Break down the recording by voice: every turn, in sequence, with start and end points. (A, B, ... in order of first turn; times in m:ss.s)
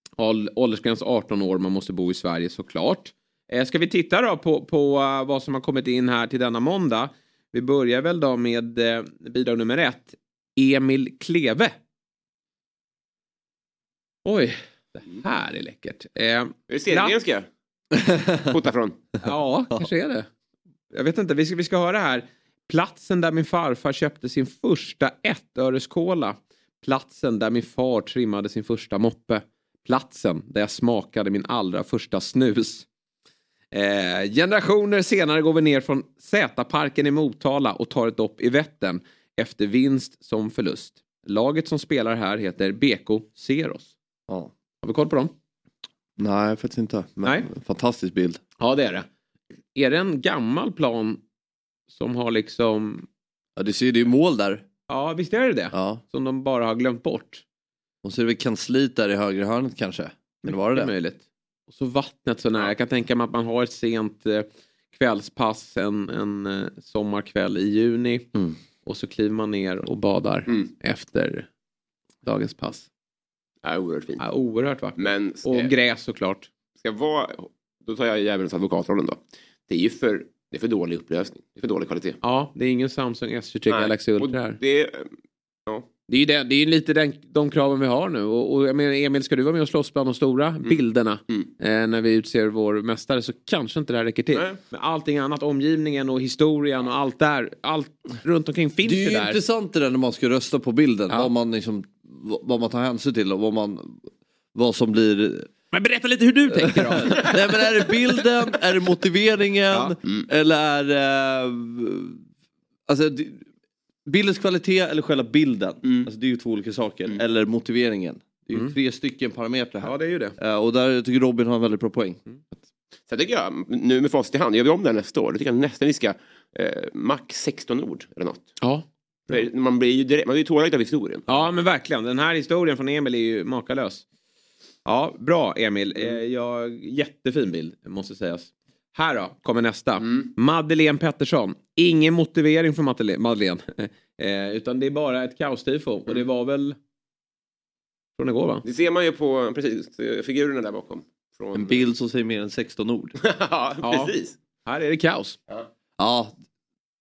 0:00.2-0:11.7 A
0:14.2-0:17.1 A
0:16.7-0:17.5 B
0:17.9-0:18.5 C
0:18.5-0:19.0 B
0:19.2-0:20.3 A
0:20.9-0:32.9 A
0:33.7-0:43.9 A
0:44.8-0:45.3 A
0:46.2-0:48.4 C
0:48.6-0:49.1 A
0:49.7-0:51.2 A
0:51.9-0:53.1 A
0:53.6-0:54.6 C
0:54.9-0:57.4 A
0:55.7-0:56.0 C
0:58.0-1:00.9 C
1:00.4-1:08.2 A
1:08.8-1:11.5 A
1:12.2-1:12.9 A
1:13.6-1:14.2 B
1:14.2-1:16.5 A
1:15.0-1:15.7 B
1:16.8-1:22.2 B
1:22.2-1:24.6 A
1:23.7-1:25.2 B
1:26.1-1:39.4 A
1:30.6-1:31.5 B
1:34.3-1:34.6 B
1:38.8-1:45.5 C
1:45.7-1:47.6 A
1:46.5-1:52.2 C
1:52.9-1:53.5 C
1:54.1-2:02.2 C
1:55.8-1:56.1 B
1:59.8-2:00.4 A
2:03.1-2:08.6 B
2:08.6-2:09.4 A
2:09.3-2:11.4 B
2:11.3-2:14.0 A
2:14.8-2:26.8 A
2:20.0-2:20.3 B
2:28.2-2:28.6 A
2:28.6-2:31.9 B
2:31.5-2:33.2 C
2:33.2-2:34.4 B
2:33.8-2:34.1 A
2:34.6-2:35.4 A
2:36.0-2:36.3 C